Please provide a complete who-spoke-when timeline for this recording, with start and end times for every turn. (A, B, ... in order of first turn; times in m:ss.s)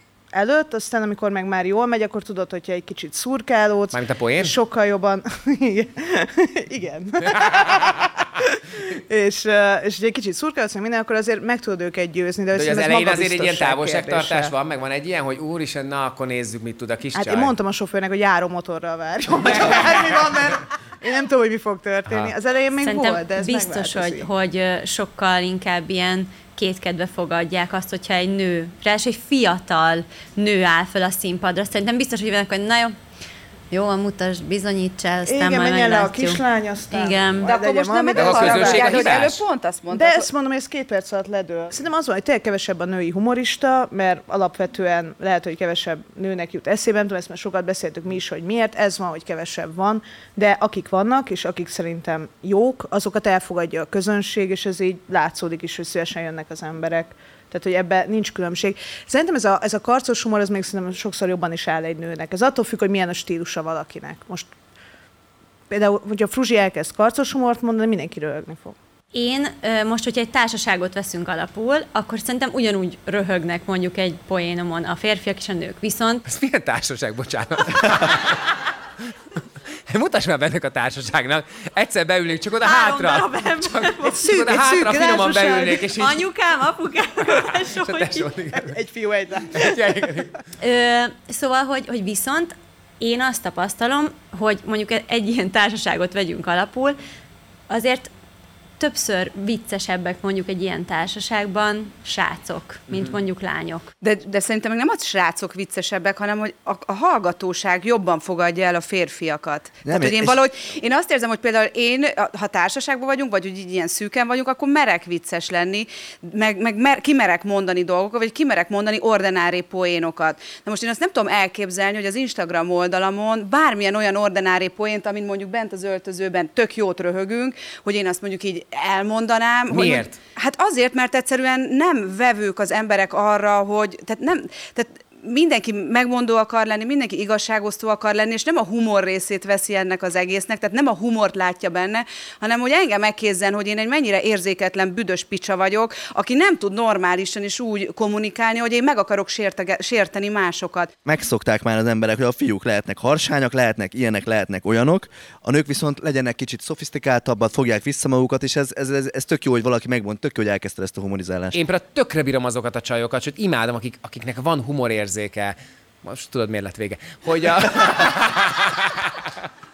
0:00.3-0:14.5 A
0:03.9-0:04.6 B
0:07.2-0:08.0 B
0:12.5-0:17.5 B
0:17.1-0:24.3 A
0:19.5-0:20.2 B
0:22.1-0:22.3 B
0:22.8-0:32.9 C
0:33.7-0:37.5 C
0:35.3-0:39.2 A
0:37.4-0:40.3 D
0:38.1-0:39.4 B
0:39.9-1:04.5 A
1:05.7-1:08.7 A
1:09.1-1:16.2 C
1:16.2-1:18.6 B
1:19.9-1:26.2 B
1:22.6-1:24.2 C
1:24.0-1:25.8 A
1:25.9-1:28.3 C
1:27.3-1:28.8 B
1:28.5-1:29.8 A
1:29.5-1:30.4 B
1:30.6-1:37.0 C
1:37.7-1:38.1 C
1:38.8-1:43.9 C
1:44.0-2:30.9 D
1:49.8-1:50.4 E
2:09.7-2:10.2 B
2:31.0-2:41.6 E
2:41.5-2:49.3 B